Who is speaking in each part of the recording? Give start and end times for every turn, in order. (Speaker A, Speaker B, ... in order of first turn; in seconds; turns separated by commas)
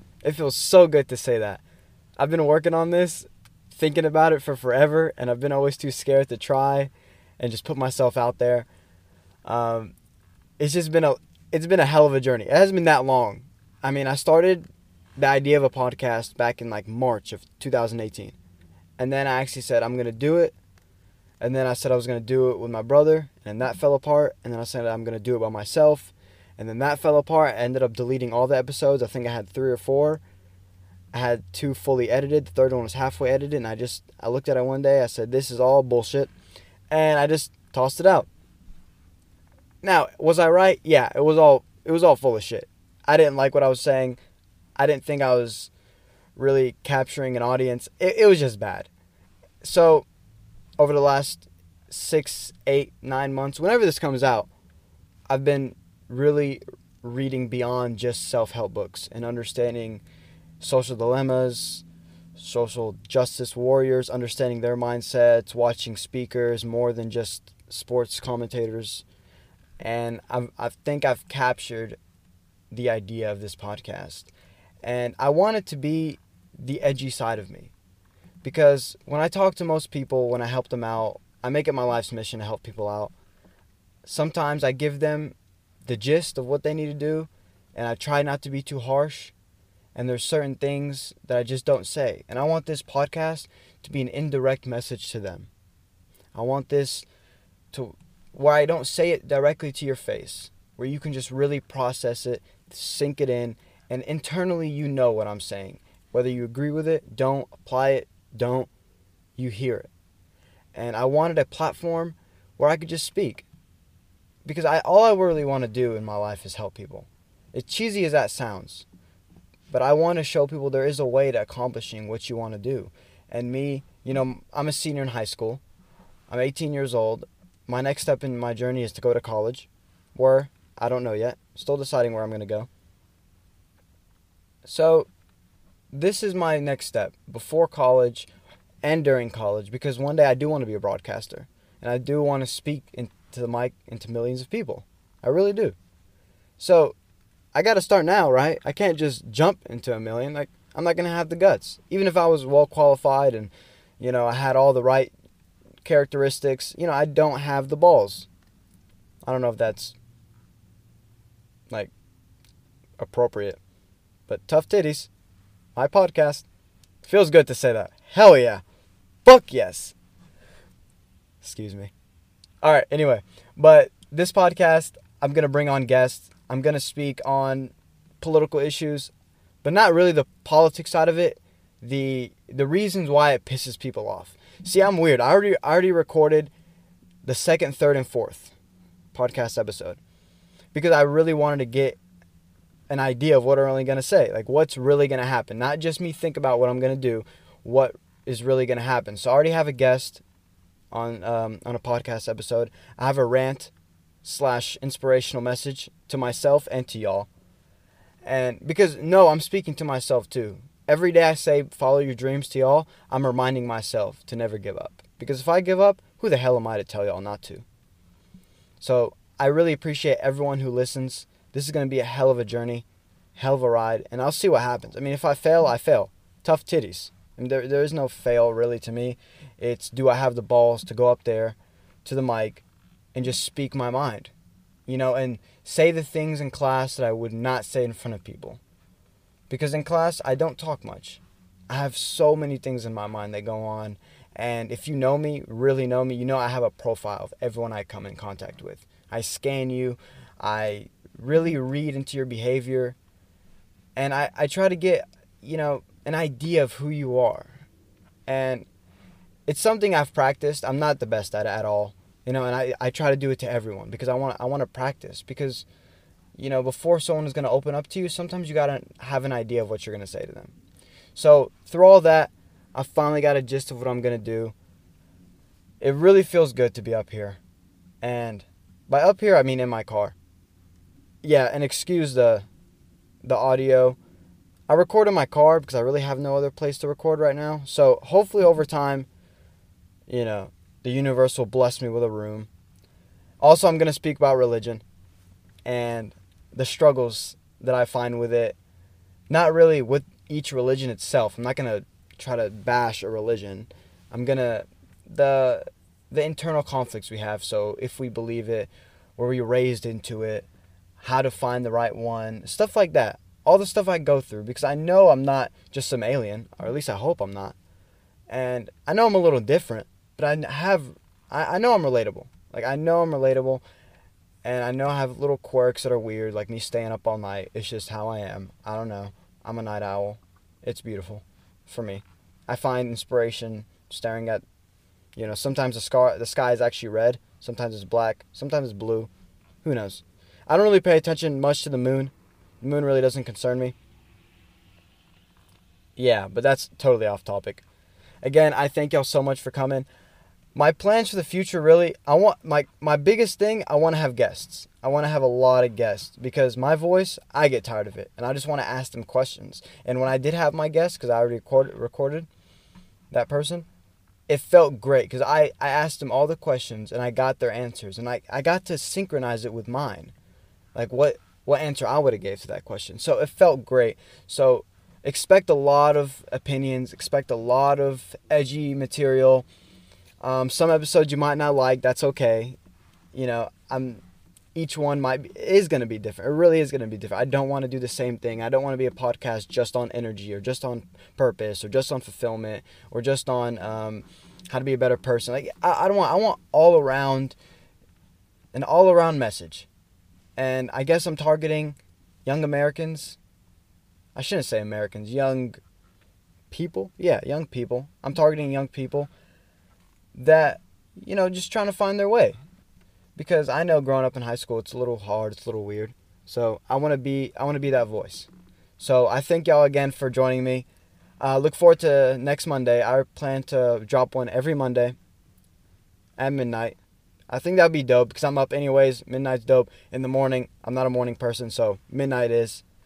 Speaker A: 0.2-1.6, Speaker A: 2.2-8.7, Speaker A: 9.4-9.9, Speaker A: 10.6-18.4, Speaker A: 19.0-20.6, Speaker A: 21.4-30.2, Speaker A: 31.1-36.3, Speaker A: 36.9-38.3, Speaker A: 39.8-44.2, Speaker A: 44.8-45.7, Speaker A: 46.4-48.9, Speaker A: 49.6-50.1, Speaker A: 50.8-54.5, Speaker A: 55.3-60.0, Speaker A: 60.6-61.8, Speaker A: 62.4-69.0, Speaker A: 69.8-72.0, Speaker A: 72.7-74.3, Speaker A: 74.8-77.7, Speaker A: 78.4-83.1, Speaker A: 84.1-89.3, Speaker A: 90.0-95.5, Speaker A: 96.3-97.1, Speaker A: 97.7-108.7, Speaker A: 109.4-109.9, Speaker A: 110.8-113.5, Speaker A: 114.5-118.9, Speaker A: 119.7-125.6, Speaker A: 126.3-132.7, Speaker A: 134.7-135.1, Speaker A: 135.9-138.3, Speaker A: 138.8-145.8, Speaker A: 146.6-146.9, Speaker A: 147.6-155.1, Speaker A: 155.8-158.3, Speaker A: 159.2-160.0, Speaker A: 163.0-163.6, Speaker A: 164.3-165.1, Speaker A: 165.8-166.4, Speaker A: 167.0-168.6, Speaker A: 169.2-169.9, Speaker A: 171.4-171.9, Speaker A: 172.6-179.1, Speaker A: 179.6-186.5, Speaker A: 187.2-188.6, Speaker A: 189.1-190.0, Speaker A: 190.7-192.0, Speaker A: 192.9-200.2, Speaker A: 200.9-203.7, Speaker A: 204.2-207.3, Speaker A: 208.2-217.7, Speaker A: 218.8-222.8, Speaker A: 223.4-232.6, Speaker A: 233.2-234.3, Speaker A: 234.9-238.6, Speaker A: 239.5-253.0, Speaker A: 254.0-257.5, Speaker A: 258.3-258.7, Speaker A: 259.5-265.6, Speaker A: 266.4-270.5, Speaker A: 271.1-274.5, Speaker A: 275.8-277.4, Speaker A: 278.0-280.1, Speaker A: 281.2-282.5, Speaker A: 283.2-284.0, Speaker A: 284.7-289.1, Speaker A: 290.1-292.5, Speaker A: 293.4-294.8, Speaker A: 295.6-298.6, Speaker A: 299.3-310.5, Speaker A: 311.0-317.6, Speaker A: 318.3-323.6, Speaker A: 324.4-334.4, Speaker A: 335.2-339.1, Speaker A: 339.6-343.8, Speaker A: 346.0-347.6, Speaker A: 348.2-349.9, Speaker A: 350.6-362.3, Speaker A: 363.1-363.7, Speaker A: 364.3-370.1, Speaker A: 370.8-379.5, Speaker A: 380.2-382.6, Speaker A: 383.1-384.0, Speaker A: 384.6-397.4, Speaker A: 398.5-399.7, Speaker A: 400.4-403.2, Speaker A: 404.1-405.6, Speaker A: 406.5-409.1, Speaker A: 410.1-412.4, Speaker A: 413.2-420.7, Speaker A: 421.2-425.0, Speaker A: 426.2-426.8, Speaker A: 427.3-432.6